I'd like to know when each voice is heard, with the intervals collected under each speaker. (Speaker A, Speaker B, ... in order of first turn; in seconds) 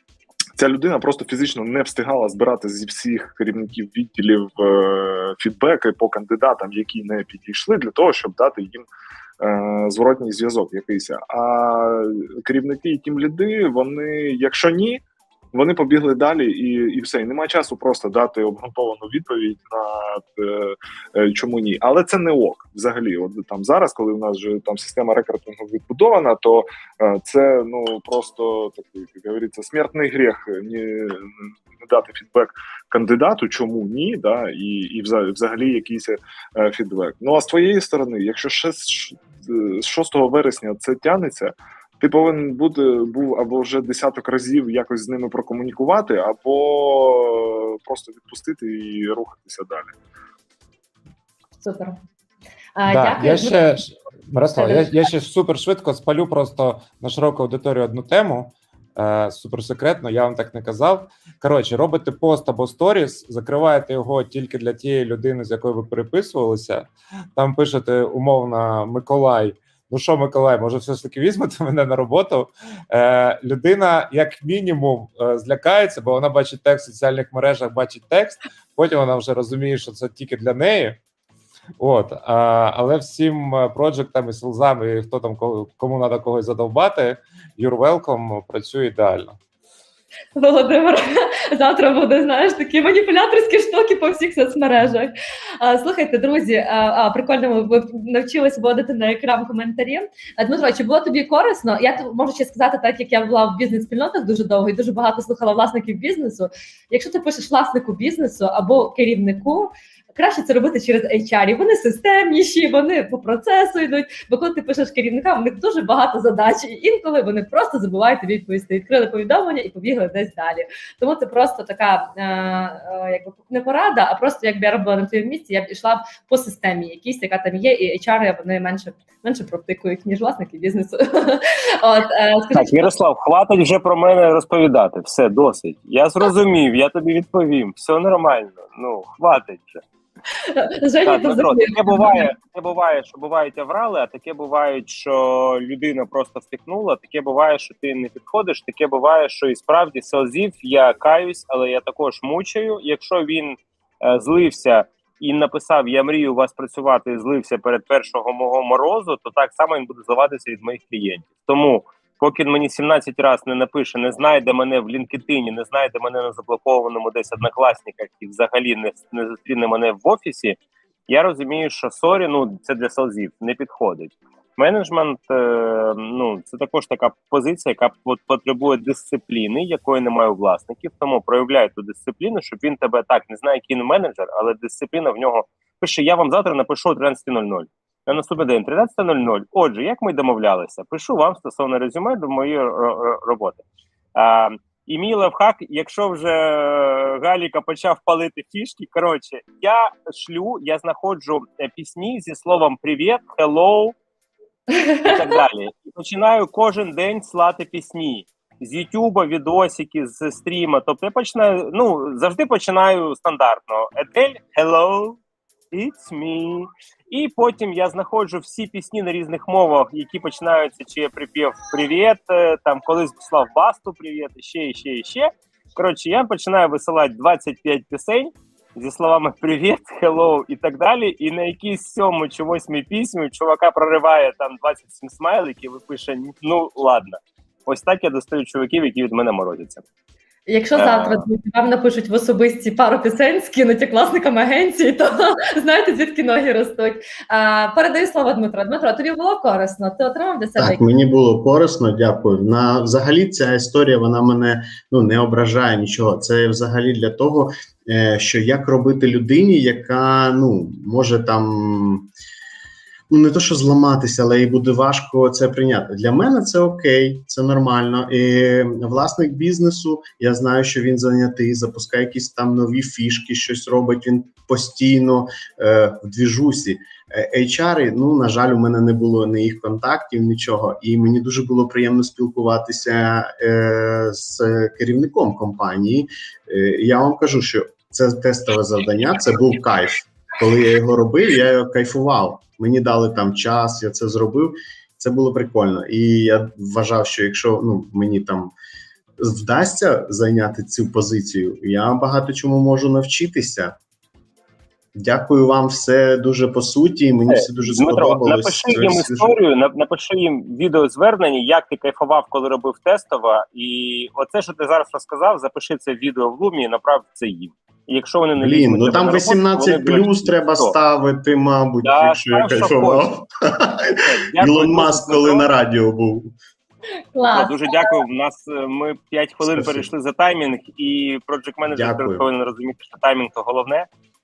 Speaker A: 0.6-8.9, 9.4-15.0, 15.5-31.2, 31.8-49.9
Speaker B: 51.6-52.0, 52.8-53.8, 54.5-55.0, 90.4-132.9, 140.5-142.3, 240.5-250.8, 327.1-327.9
Speaker C: 52.9-81.0, 81.8-89.4
Speaker D: 132.5-139.8, 141.0-193.6, 194.2-203.9, 205.0-215.2, 215.7-239.8, 240.8-241.2, 307.3-320.8, 321.8-323.1, 324.0-325.5, 327.3-333.9
Speaker E: 250.6-262.1, 263.1-298.5, 299.2-303.8, 305.0-309.4, 318.4-326.3, 329.4-329.9, 331.6-332.3